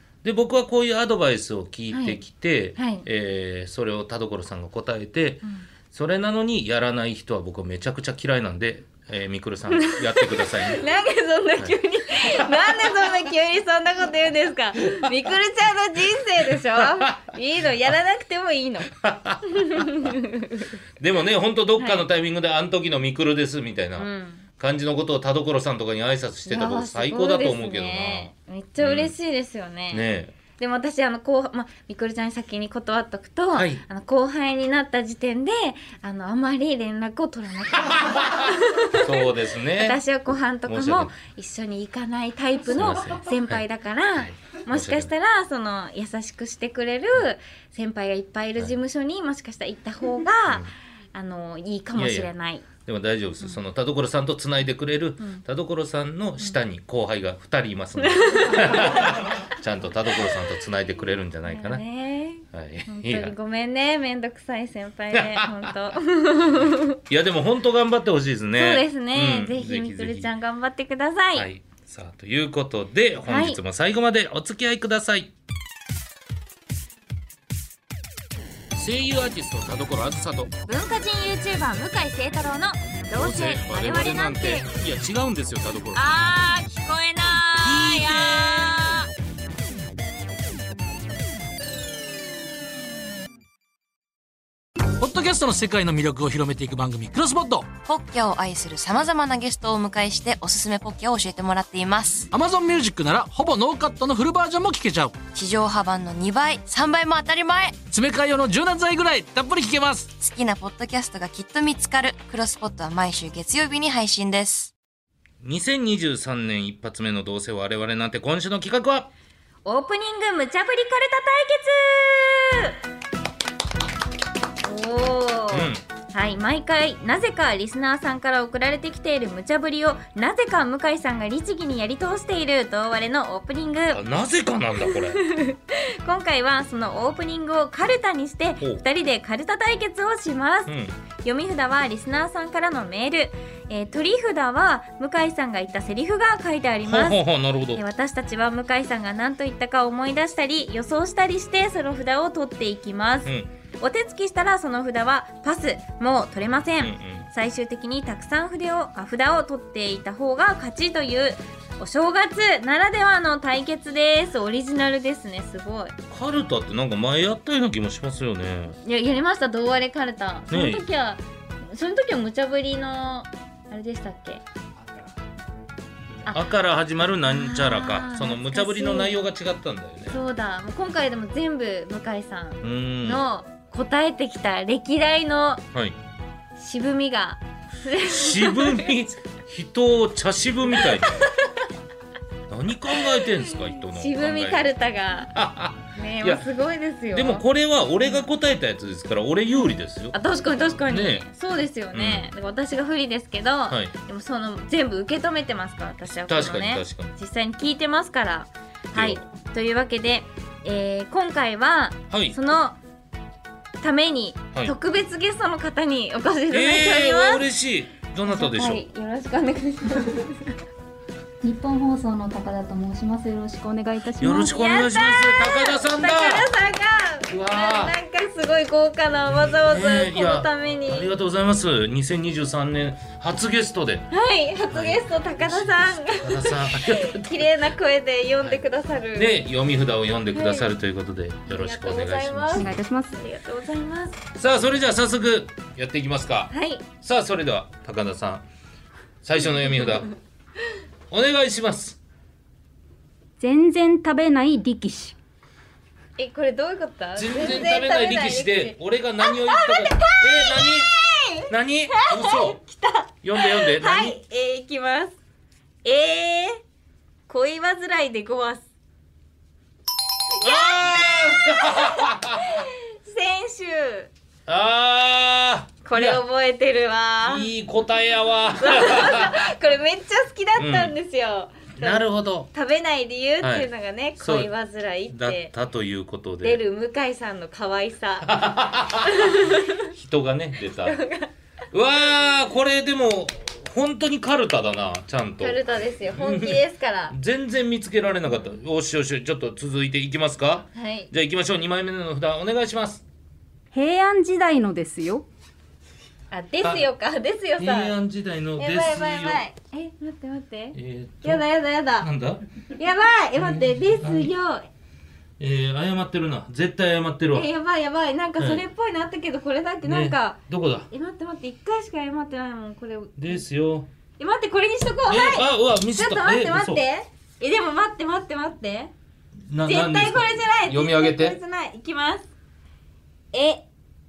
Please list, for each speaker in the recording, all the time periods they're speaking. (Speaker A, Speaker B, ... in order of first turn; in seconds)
Speaker A: 0.2-10.8, 12.3-12.7, 16.8-17.2, 19.0-20.1, 21.0-29.1, 29.9-30.4, 33.5-33.8, 37.9-40.0, 40.7-41.1, 42.7-43.6, 44.2-45.1, 50.5-50.7, 52.0-61.8, 62.5-63.4, 65.1-65.7, 67.1-70.3, 71.3-75.3, 78.7-80.5, 83.1-86.1, 87.6-88.9, 115.4-119.1, 125.5-125.8, 133.9-135.2, 140.7-140.9, 146.8-147.8, 156.8-157.3, 166.1-168.8, 170.5-170.8, 176.3-180.2, 182.6-183.2, 188.1-191.3, 192.5-194.7, 195.3-196.5, 197.1-200.2, 200.9-201.3, 201.9-202.3, 203.7-203.9, 206.3-207.1, 208.9-209.2, 212.1-212.4, 216.5-218.8, 224.2-226.5, 227.3-227.9, 229.5-234.1, 234.7-237.3, 239.2-242.7, 244.3-248.4, 249.2-250.1, 251.1-252.0, 257.2-260.9, 261.5-262.6, 263.2-264.2, 270.4-272.5, 274.5-276.2, 277.2-279.5, 280.6-280.9, 281.8-282.5, 283.4-284.5, 285.1-286.6, 288.2-289.4, 289.9-291.0, 291.7-295.6, 296.1-303.0, 307.6-309.4, 310.7-311.5, 312.0-312.4, 313.4-314.3, 315.4-317.5, 319.8-320.9, 323.2-323.9, 325.1-326.8, 329.5-331.4
Speaker B: 1.9-2.2, 2.8-3.0, 9.7-18.9, 19.5-20.7, 21.8-22.0, 24.0-24.5, 26.5-30.1, 30.6-52.7, 58.0-59.1, 61.5-67.0, 68.6-71.5, 73.3-73.6, 80.7-84.7, 85.9-89.1, 119.7-122.8, 124.6-134.0, 134.9-147.2, 147.8-166.0, 168.8-174.4, 177.3-179.2, 180.1-185.7, 186.6-188.9, 191.1-191.5, 193.9-195.3, 195.9-197.5, 200.1-212.8, 213.8-217.4, 218.3-220.5, 224.4-231.1, 234.1-239.4, 240.3-240.7, 241.5-244.2, 246.5-246.8, 256.2-265.2, 265.8-266.6, 267.3-268.6, 270.3-274.1, 275.9-277.5, 278.6-285.5, 286.4-288.4, 289.0-289.9, 290.8-291.3, 295.4-297.1, 300.8-301.1, 306.3-307.9, 308.6-312.1, 312.8-314.7, 317.3-320.4, 320.9-323.4, 324.2-328.9, 329.6-332.3, 333.3-333.6
Speaker C: 95.0-97.7, 102.3-105.2, 107.9-110.1
Speaker D: 97.8-102.3, 105.3-107.9, 110.1-114.7
Speaker E: 221.4-224.5, 242.5-243.2, 253.4-255.2, 303.7-305.2